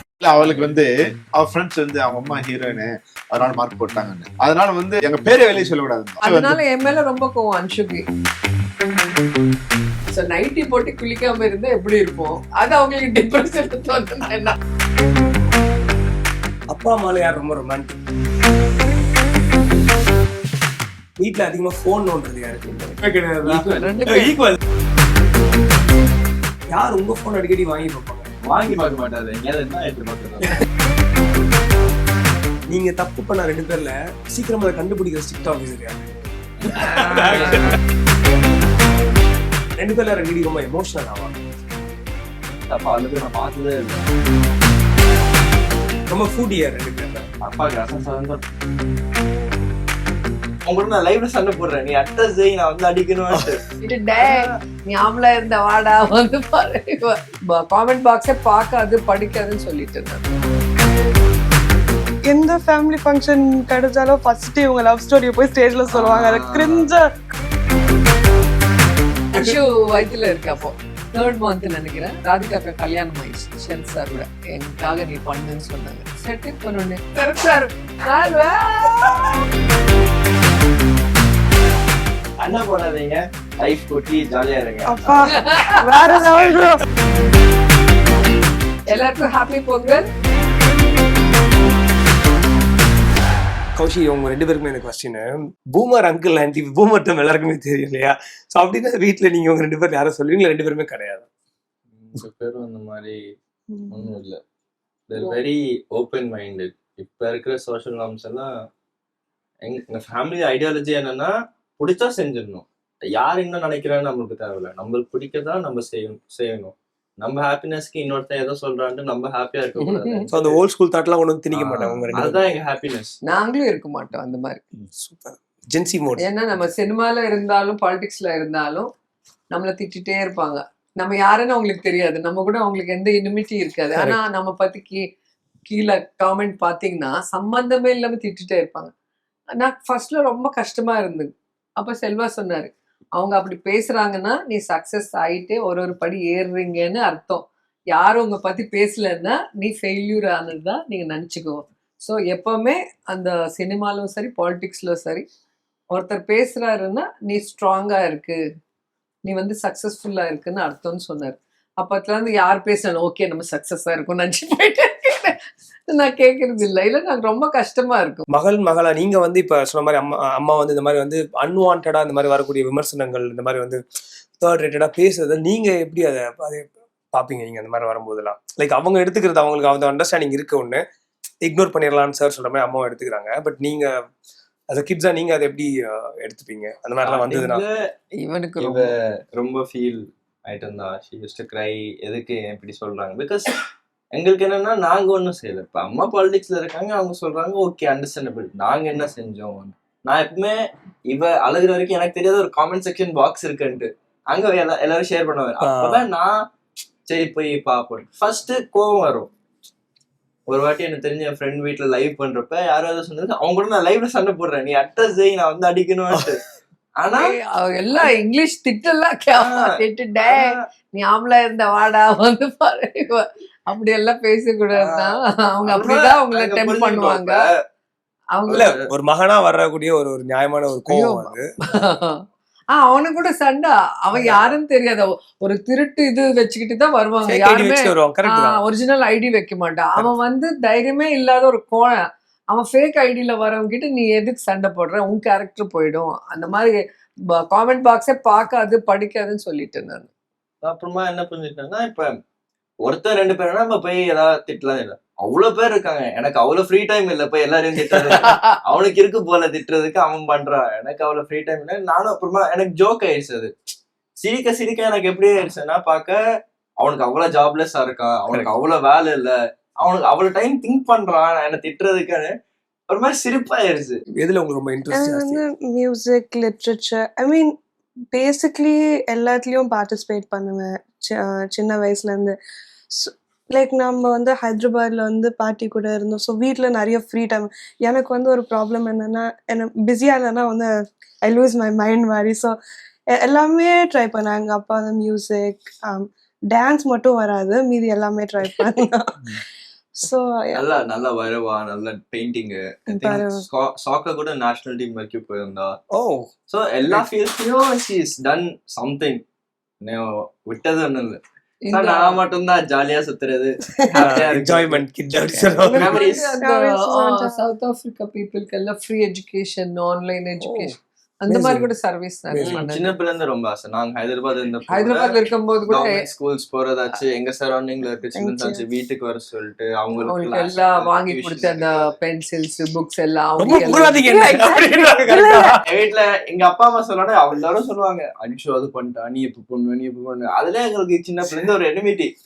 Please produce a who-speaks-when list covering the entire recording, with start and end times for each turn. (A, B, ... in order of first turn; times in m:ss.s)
0:00.2-0:06.6 A
0:06.2-0:08.0 B
0:10.1-0:14.6 B
0:16.7-0:18.0 C
0:21.2-0:24.6 C
0:23.4-0:24.0 D
0:23.8-0:24.3 B
0:26.7-0:28.3 C
0:28.4-0:30.6 D
0:32.7-0:37.8 C
0:36.6-0:37.8 D
0:39.8-0:41.4 C
0:42.7-0:44.0 D
0:46.1-0:47.3 C
0:47.4-0:48.4 D
0:50.7-0:53.7 D
0:53.8-1:00.4 B
0:54.2-0:54.5 D
1:02.3-1:07.1 E
1:05.9-1:06.9 D
1:09.3-1:19.4 B
1:09.3-1:09.6 C
1:22.4-1:25.3 D
1:24.8-1:26.8 E
1:25.3-1:25.9 B
1:28.9-1:30.1 B
1:33.8-1:41.2 C
1:41.9-1:43.2 D
1:43.7-1:44.1 E
1:43.9-1:44.4 D
1:45.1-1:48.5 D
1:49.6-2:00.6 D
1:59.8-2:00.2 B
2:00.3-2:02.5 C
2:01.5-2:03.2 D
2:03.3-2:04.6 B
2:05.0-2:06.2 C
2:06.2-2:08.9 B
2:09.5-2:15.0 B
2:15.7-2:18.9 B
2:19.6-2:35.2 B
2:35.9-2:38.4 B
2:39.3-2:48.2 B
2:48.3-2:53.8 C
2:54.4-3:00.8 C
3:01.4-3:03.9 C
3:04.7-3:07.6 C
3:07.0-3:07.8 D
3:08.2-3:08.9 B
3:08.6-3:13.6 D
3:14.1-3:26.4 D
3:25.6-3:26.0 C
3:27.1-3:29.3 D
3:30.5-3:36.4 D
3:37.0-3:37.3 D
3:37.1-3:47.4 B
3:39.4-3:39.7 D
3:40.2-3:40.6 D
3:44.7-3:47.5 D
3:48.3-3:48.7 B
3:48.5-3:48.8 D
3:48.5-3:51.4 C
3:50.9-4:06.7 B
3:57.3-3:58.6 C
4:07.4-4:10.1 B
4:10.6-4:12.1 D
4:12.8-4:23.5 D
4:17.9-4:18.2 C
4:18.1-4:18.6 B
4:24.2-4:26.2 D
4:26.8-4:32.4 D
4:32.9-4:34.0 D
4:34.2-4:35.4 C
4:34.9-4:37.5 E
4:38.1-4:42.3 E
4:42.9-4:52.6 E
4:53.1-4:59.4 E
5:00.0-5:00.6 E
5:00.5-5:05.8 D
5:02.9-5:03.4 E
5:05.9-5:06.3 C
5:06.5-5:09.2 D
5:09.8-5:11.2 D
5:11.6-5:12.2 B
5:11.7-5:14.8 D
5:14.0-5:16.0 C
5:15.4-5:22.9 B
5:15.7-5:16.4 D
5:16.4-5:17.4 E
5:20.4-5:20.8 C
5:21.3-5:21.7 C
5:22.3-5:22.6 C
5:22.4-5:31.9 D
5:24.7-5:26.0 B
5:28.2-5:28.6 E
5:30.1-5:34.3 B
5:33.4-5:35.6 C
5:34.0-5:35.6 E
5:35.6-5:42.1 D